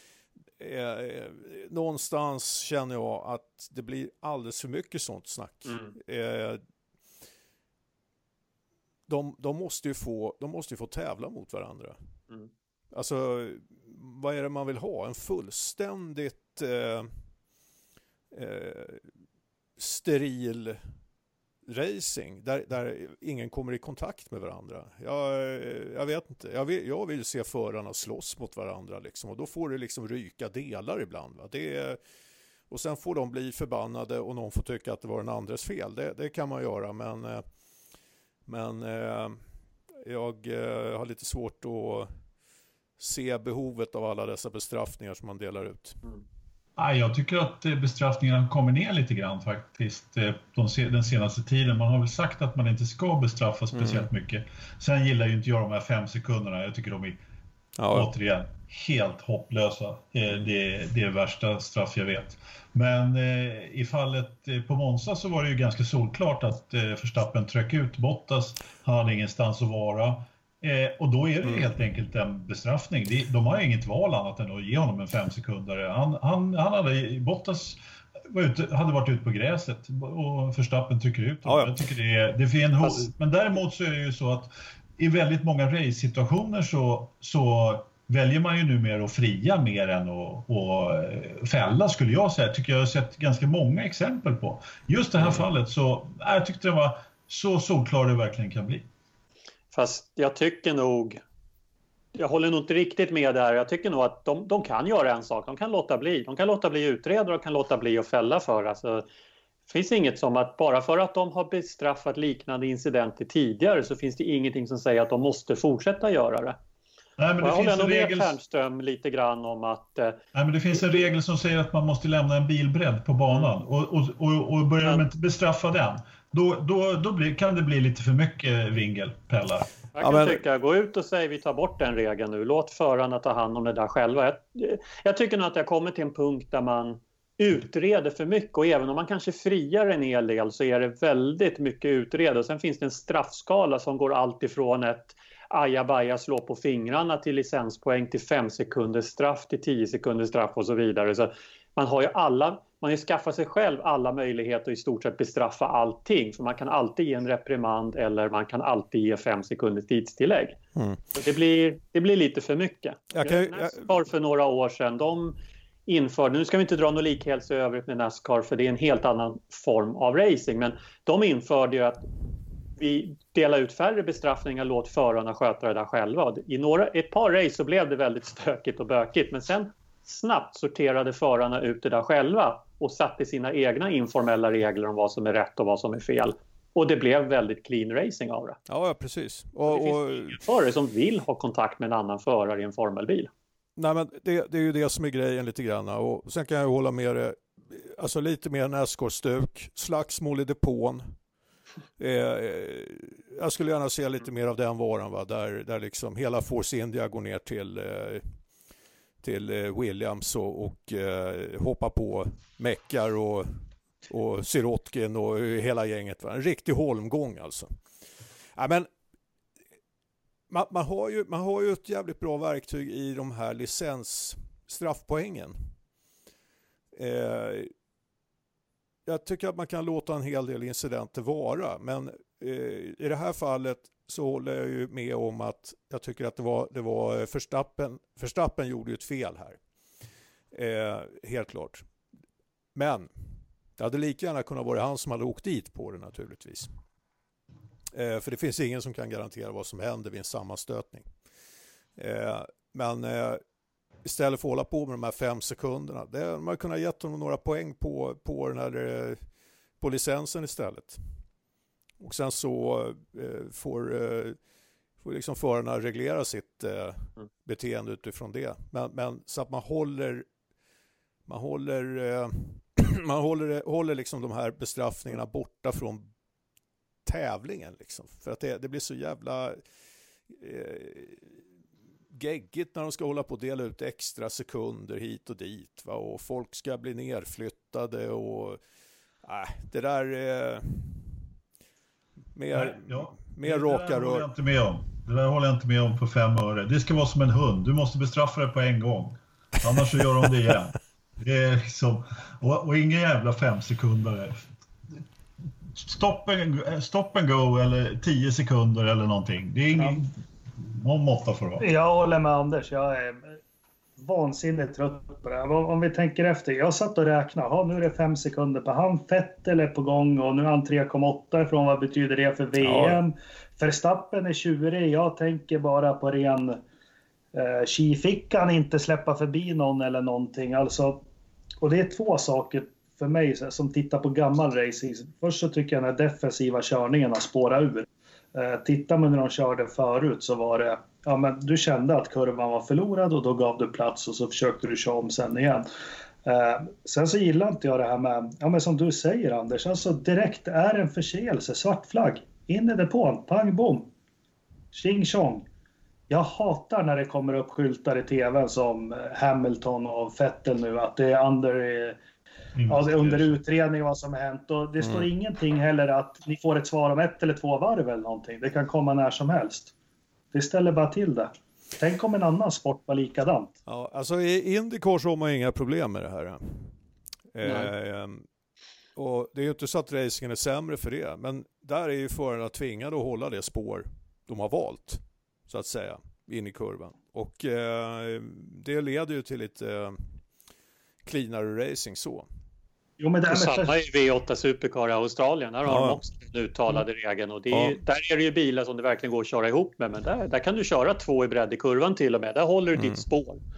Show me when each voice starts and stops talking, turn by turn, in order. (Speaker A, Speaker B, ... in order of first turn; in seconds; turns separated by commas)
Speaker A: 0.6-6.6, Speaker B: 5.7-5.9, Speaker A: 9.1-12.0, Speaker A: 12.9-17.1, Speaker A: 18.3-19.1, Speaker A: 19.8-20.8, Speaker A: 21.7-32.0, Speaker A: 32.7-37.4, Speaker A: 38.5-39.4, Speaker A: 40.0-42.1, Speaker A: 43.0-46.0, Speaker C: 46.8-57.2, Speaker A: 53.7-54.1, Speaker A: 57.8-58.1, Speaker C: 57.9-98.9, Speaker A: 81.4-81.7, Speaker B: 82.8-83.1, Speaker B: 99.7-101.2, Speaker B: 102.1-109.0, Speaker B: 109.7-116.6, Speaker C: 117.2-118.3, Speaker B: 117.4-120.2, Speaker C: 120.3-129.7, Speaker B: 129.9-160.6, Speaker A: 130.0-130.4, Speaker A: 160.8-161.0, Speaker B: 161.1-165.3, Speaker A: 163.1-163.9, Speaker B: 165.9-172.1, Speaker B: 172.8-188.6, Speaker A: 188.7-190.4, Speaker B: 189.7-193.3, Speaker A: 193.8-201.1, Speaker A: 202.0-208.4, Speaker A: 209.2-217.7, Speaker A: 218.5-218.9, Speaker A: 220.5-225.7, Speaker A: 226.9-227.7, Speaker A: 229.1-239.6, Speaker A: 240.5-241.8, Speaker A: 242.7-246.7, Speaker A: 247.9-251.1, Speaker A: 251.9-253.4, Speaker A: 254.0-259.2, Speaker A: 259.8-261.0, Speaker A: 262.0-264.4, Speaker A: 265.0-270.3, Speaker A: 271.2-276.1, Speaker A: 277.0-279.6, Speaker A: 280.3-281.4, Speaker A: 282.1-288.6, Speaker A: 289.2-291.3, Speaker A: 292.3-294.2, Speaker C: 292.5-304.5, Speaker C: 305.8-311.7, Speaker D: 309.8-310.0, Speaker D: 311.6-313.4, Speaker D: 314.0-326.6, Speaker A: 322.6-323.0, Speaker D: 327.3-331.1, Speaker D: 331.6-345.7, Speaker D: 346.2-353.9, Speaker D: 354.7-355.5, Speaker D: 356.1-362.0, Speaker C: 362.5-363.4, Speaker D: 362.7-369.7, Speaker A: 364.8-365.1, Speaker D: 370.3-373.5, Speaker A: 373.7-376.7, Speaker A: 377.3-378.2, Speaker B: 377.4-377.7, Speaker A: 378.9-390.2, Speaker A: 391.0-392.3, Speaker D: 393.0-393.7, Speaker B: 393.3-403.4, Speaker A: 395.6-396.0, Speaker A: 397.5-397.8, Speaker A: 402.8-403.0